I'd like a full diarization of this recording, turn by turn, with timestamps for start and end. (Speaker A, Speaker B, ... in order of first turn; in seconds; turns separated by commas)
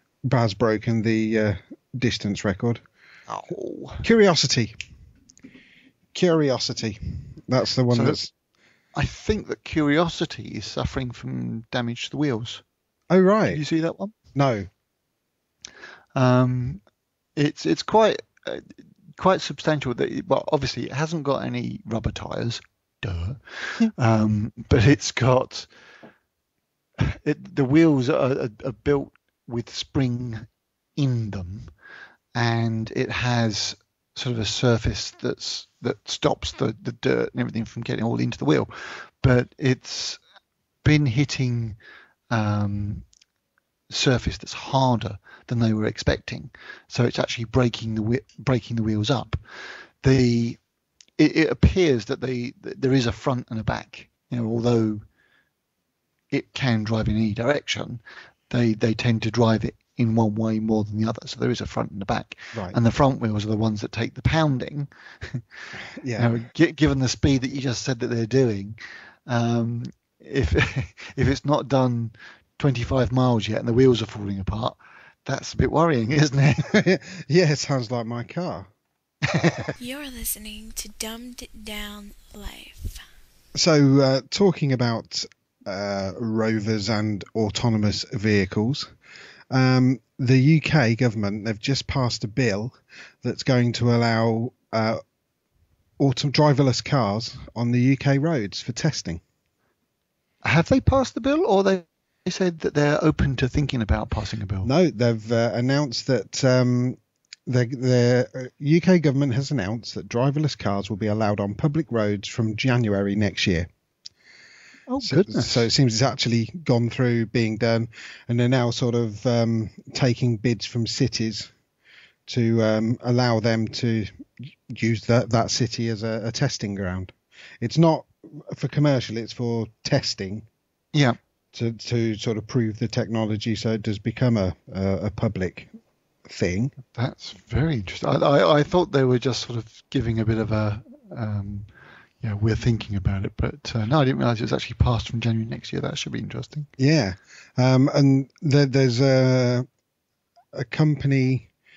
Speaker A: 0.2-2.8, Speaker B: 3.3-4.0, Speaker A: 4.0-4.7, Speaker A: 6.1-8.3, Speaker B: 7.9-8.2, Speaker B: 8.9-12.6, Speaker A: 13.1-13.6, Speaker B: 13.5-14.1, Speaker A: 14.3-14.7, Speaker B: 16.1-16.8, Speaker B: 17.4-25.7, Speaker B: 27.0-31.7, Speaker B: 32.3-40.2, Speaker B: 40.8-41.8, Speaker B: 42.3-43.0, Speaker B: 43.9-49.4, Speaker B: 50.0-50.6, Speaker B: 51.2-55.0, Speaker B: 56.3-65.4, Speaker A: 66.0-66.3, Speaker B: 66.2-76.8, Speaker A: 76.7-78.7, Speaker B: 79.2-79.7, Speaker C: 79.8-83.0, Speaker A: 83.5-88.9, Speaker A: 89.5-95.0, Speaker A: 96.0-99.2, Speaker B: 100.4-104.7, Speaker A: 104.6-113.7, Speaker B: 114.9-115.7, Speaker A: 115.0-121.5, Speaker A: 122.3-124.1, Speaker A: 124.7-130.4, Speaker A: 131.5-135.7, Speaker A: 136.2-136.7, Speaker B: 136.9-141.7, Speaker B: 142.2-146.7, Speaker A: 146.8-149.7, Speaker A: 150.5-151.5